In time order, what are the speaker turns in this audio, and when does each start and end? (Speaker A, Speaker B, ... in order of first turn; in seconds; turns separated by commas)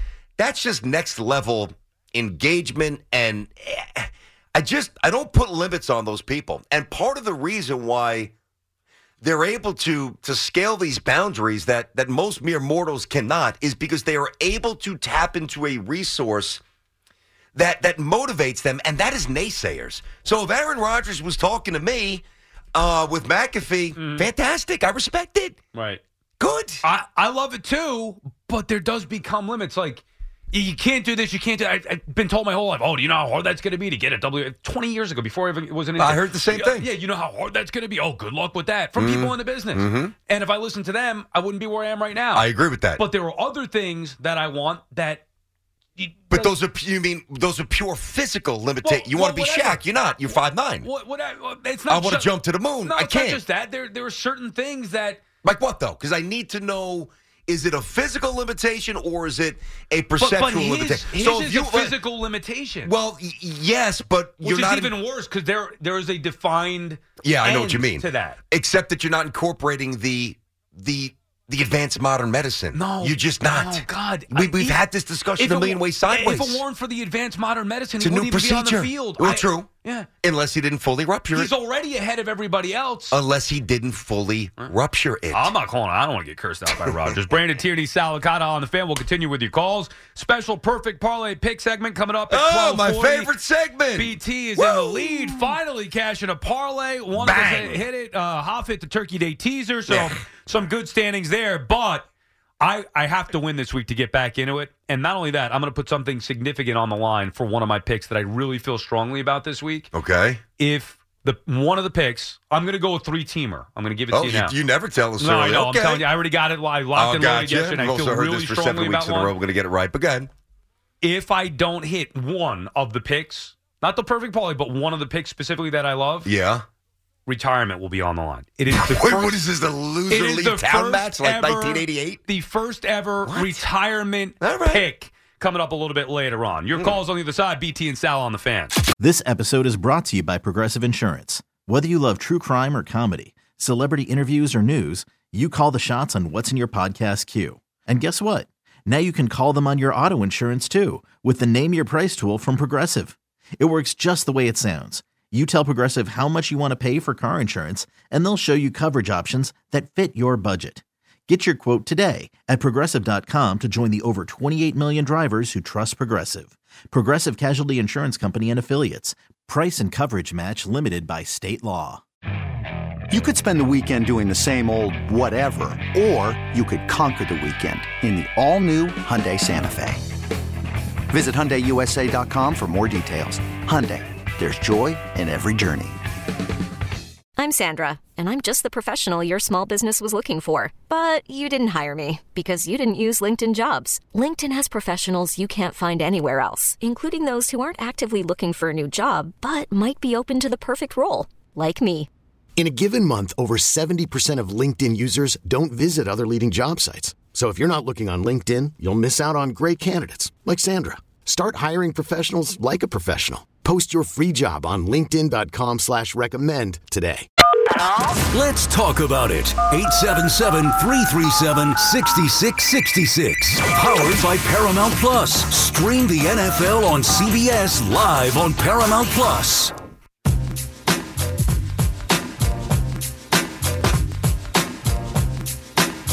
Speaker A: 0.4-8.3, Speaker A: 9.2-16.6, Speaker A: 17.5-22.2, Speaker A: 22.7-25.6, Speaker B: 24.0-24.3, Speaker B: 25.7-26.0, Speaker A: 26.4-26.8, Speaker B: 26.8-42.5, Speaker A: 36.0-36.9, Speaker A: 39.0-40.1, Speaker A: 42.3-43.0, Speaker B: 43.0-45.2, Speaker B: 46.0-46.5, Speaker A: 46.3-50.9, Speaker B: 48.8-52.3, Speaker A: 51.9-53.4, Speaker B: 52.8-55.2, Speaker A: 55.4-61.9, Speaker B: 60.2-62.9, Speaker A: 62.8-64.9, Speaker B: 64.4-68.4, Speaker A: 67.2-76.6, Speaker B: 72.7-74.8, Speaker B: 75.4-80.1, Speaker A: 78.0-79.7, Speaker A: 80.2-81.5, Speaker B: 81.3-83.2, Speaker A: 83.1-85.5, Speaker B: 85.3-93.3, Speaker A: 86.9-87.1, Speaker A: 92.3-95.5, Speaker B: 94.0-102.1, Speaker A: 97.2-97.8, Speaker A: 99.9-100.1, Speaker B: 102.6-109.9, Speaker A: 109.9-110.4, Speaker B: 110.6-114.5, Speaker A: 114.1-116.0, Speaker B: 115.2-119.3, Speaker A: 116.9-120.3, Speaker B: 121.0-126.3, Speaker A: 126.2-126.6, Speaker B: 127.2-129.4, Speaker A: 128.7-132.2, Speaker B: 130.1-138.7, Speaker A: 133.3-133.6, Speaker A: 134.4-134.8, Speaker C: 139.0-172.0, Speaker D: 173.1-180.1, Speaker D: 181.1-186.0, Speaker E: 187.4-202.1, Speaker F: 202.6-217.3, Speaker G: 218.3-229.7